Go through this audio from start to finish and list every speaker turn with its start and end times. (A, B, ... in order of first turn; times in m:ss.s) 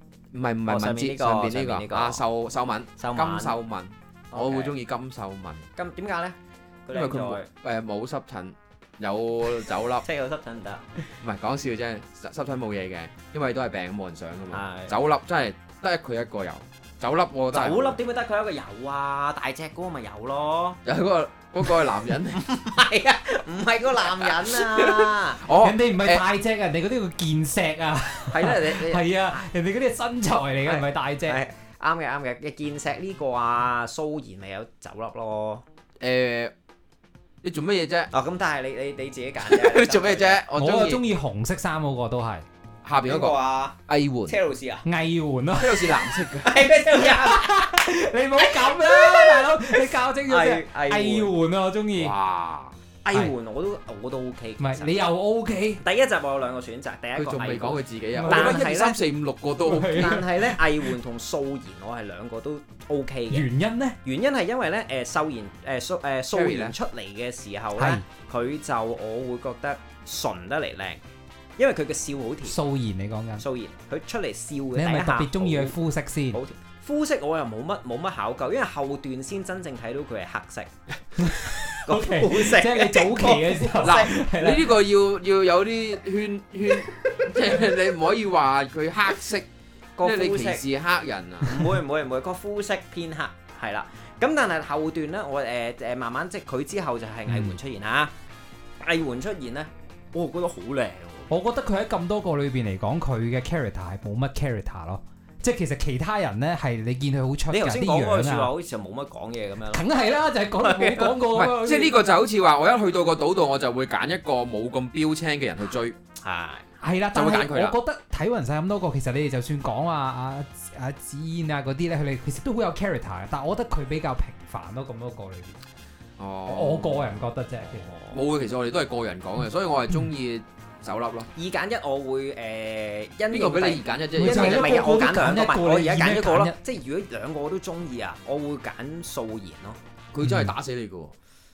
0:00.3-0:05.7 A
0:00.7-0:02.2 B
0:03.0-0:03.6 B
0:04.3-0:04.8 B
0:05.8-0:07.5 B
0:06.9-0:10.0 A
0:10.0-0:11.1 B
0:11.2-0:18.0 A
0:14.5-0:15.0 B
0:17.5-0:20.8 B
0:20.8-0:22.4 A
0:22.3-0:25.4 B
0:24.0-0:26.2 A
0:25.6-0:31.4 C
0:28.3-0:29.1 B
0:30.6-0:35.6 B
0:36.0-0:36.5 A
0:37.4-0:38.1 A
0:38.1-0:40.4 B
0:39.4-0:41.0 A
0:40.6-0:42.5 C
0:42.8-0:44.4 A
0:43.1-0:44.8 B
0:44.9-0:46.0 C
0:45.5-0:46.5 A
0:46.4-0:47.5 B
0:47.0-0:52.2 C
0:48.5-0:49.6 B
0:50.3-0:51.3 B
0:52.0-0:52.8 A
0:53.0-0:55.0 B
0:54.6-0:55.8 C
0:55.8-0:59.0 B
0:57.2-1:00.0 A
0:58.2-0:58.7 C
0:59.6-1:01.0 C
1:00.0-1:03.5 B
1:03.3-1:04.0 C
1:04.0-1:11.0 B
1:06.3-1:06.8 A
1:07.8-1:08.0 C
1:11.6-1:12.6 B
1:12.4-1:13.4 C
1:13.4-1:15.8 B
1:14.8-1:16.4 C
1:16.3-1:20.7 B
1:21.2-1:24.7 C
1:21.8-1:24.2 B
1:23.8-1:29.5 A
1:30.0-1:30.6 B
1:30.0-1:31.7 A
1:31.4-1:38.1 B
1:37.3-1:37.5 C
1:38.8-1:41.3 B
1:41.3-1:48.5 C
1:47.5-1:49.8 B
1:49.7-1:52.0 C
1:50.6-1:51.1 B
1:51.3-1:56.0 A
1:56.2-1:56.6 B
1:56.8-2:05.6 C
1:57.1-1:57.8 A
2:06.2-2:07.3 A
2:06.5-2:07.9 C
2:07.7-2:08.2 B
2:08.1-2:11.3 A
2:11.4-2:19.8 B
2:13.3-2:14.9 A
2:14.2-2:16.6 C
2:20.1-2:21.1 A
2:20.2-2:20.5 C